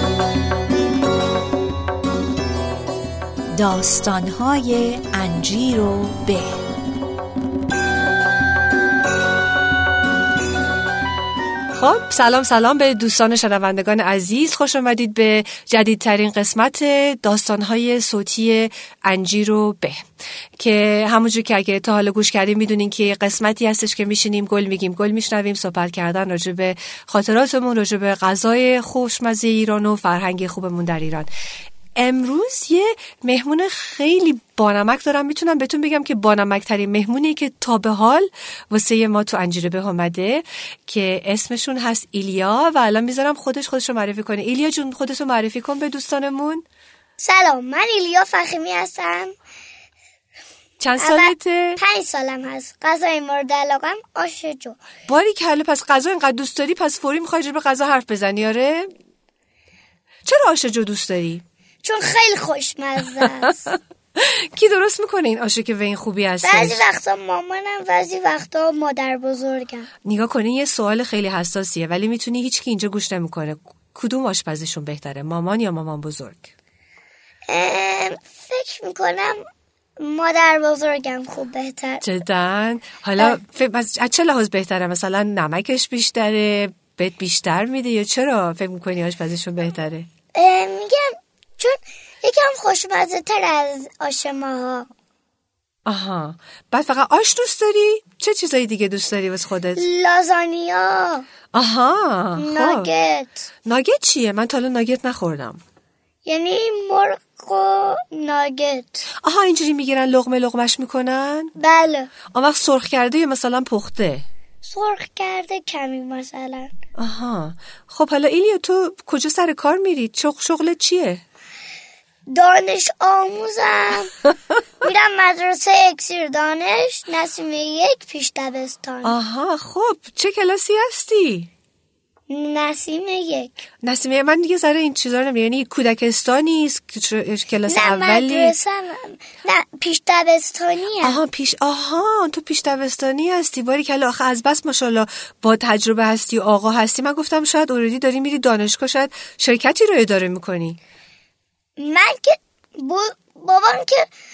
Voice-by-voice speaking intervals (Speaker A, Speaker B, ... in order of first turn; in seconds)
Speaker A: 3.5-6.6
Speaker B: 11.7-20.1, 20.6-31.3, 32.0-46.6, 50.8-51.8, 55.1-58.9, 60.2-61.4, 64.2-66.8, 70.0-76.5, 82.0-90.1, 95.9-99.8, 101.5-102.9, 103.7-105.6, 109.2-111.5, 112.3-114.2, 117.0-121.2, 129.0-131.5, 133.8-138.6, 141.0-150.8
Speaker C: 47.2-49.3, 51.0-54.8, 61.8-63.8, 66.4-69.9, 77.5-79.4, 80.0-82.0, 90.3-94.9, 99.8-101.3, 102.4-103.5, 106.2-109.1, 111.6-112.1, 114.6-116.7, 122.3-124.2, 124.8-129.2, 132.3-133.6, 137.7-141.2, 151.8-154.1